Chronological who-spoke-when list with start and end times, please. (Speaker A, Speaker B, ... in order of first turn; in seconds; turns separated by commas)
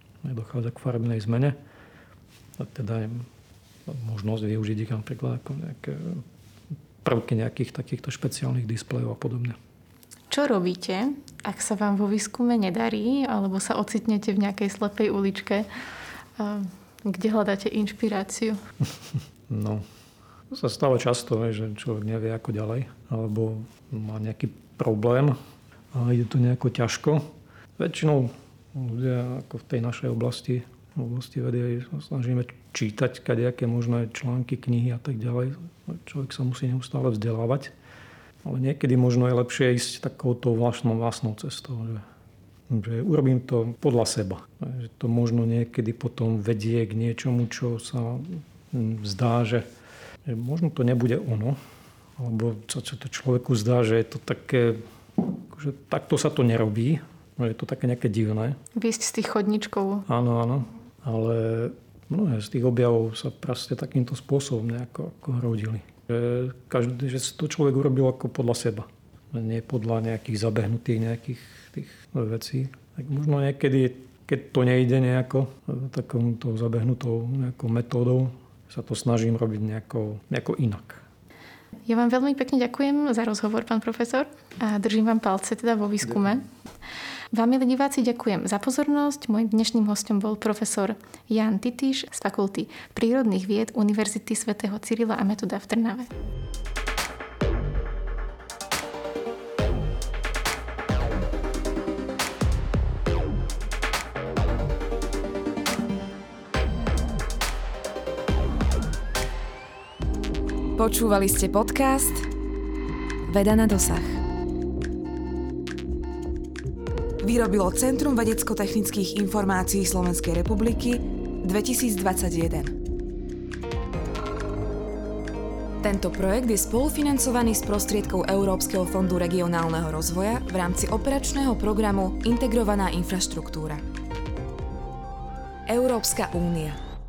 Speaker A: 0.2-1.6, Speaker A: 2.6-3.3, Speaker A: 3.9-6.2, Speaker A: 7.0-9.6, Speaker B: 10.3-15.7, Speaker B: 16.4-18.6, Speaker A: 19.5-19.8, Speaker A: 20.5-25.4, Speaker A: 25.9-37.7, Speaker A: 38.4-42.0, Speaker A: 42.7-49.7, Speaker A: 50.2-51.6, Speaker A: 52.2-58.6, Speaker B: 58.7-60.1, Speaker A: 60.1-81.0, Speaker B: 81.8-86.4, Speaker B: 87.3-96.1, Speaker C: 110.8-112.3, Speaker C: 113.3-114.2, Speaker C: 117.2-122.8, Speaker C: 125.8-133.8, Speaker C: 135.7-136.8